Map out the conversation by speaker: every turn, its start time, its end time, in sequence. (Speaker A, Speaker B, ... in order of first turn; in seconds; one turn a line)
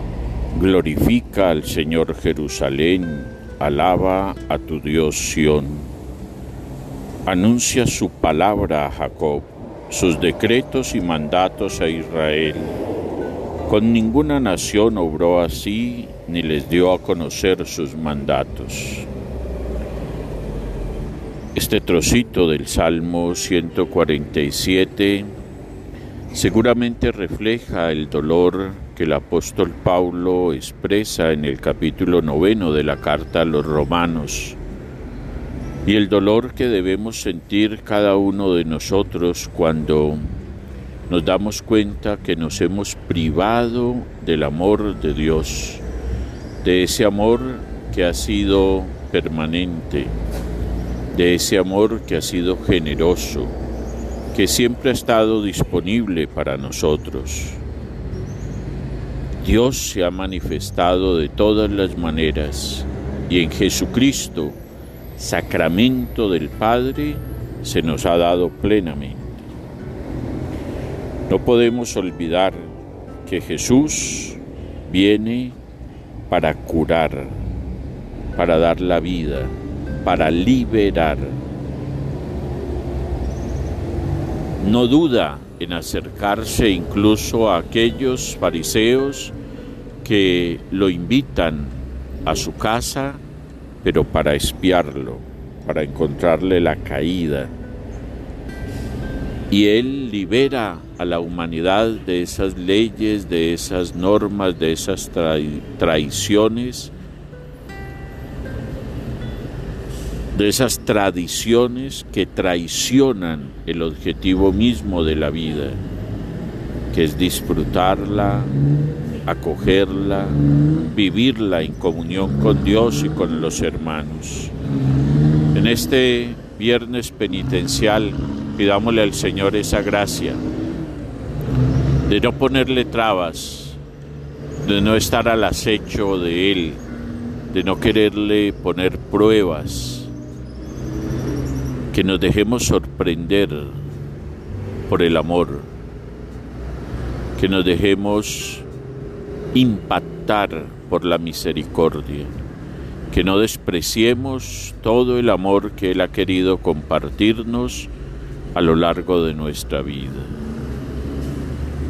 Speaker A: 0.5-5.9
Speaker A: 7.2-12.7
Speaker A: 13.6-19.1
Speaker A: 21.5-25.3
Speaker A: 26.3-34.6
Speaker A: 35.8-40.4
Speaker A: 41.1-45.8
Speaker A: 46.6-50.1
Speaker A: 51.1-53.5
Speaker A: 54.3-57.6
Speaker A: 59.4-64.6
Speaker A: 65.2-69.5
Speaker A: 71.3-72.7
Speaker A: 73.2-75.6
Speaker A: 76.3-77.4
Speaker A: 78.3-81.4
Speaker A: 84.6-89.3
Speaker A: 90.0-93.2
Speaker A: 93.8-97.5
Speaker A: 99.5-106.9
Speaker A: 110.3-115.8
Speaker A: 116.9-118.5
Speaker A: 119.2-124.5
Speaker A: 125.5-130.4
Speaker A: 132.0-133.8
Speaker A: 134.6-136.8
Speaker A: 137.5-140.1
Speaker A: 141.9-143.8
Speaker A: 144.9-145.7
Speaker A: 147.3-148.7
Speaker A: 149.5-152.3
Speaker A: 153.1-157.9
Speaker A: 158.5-160.3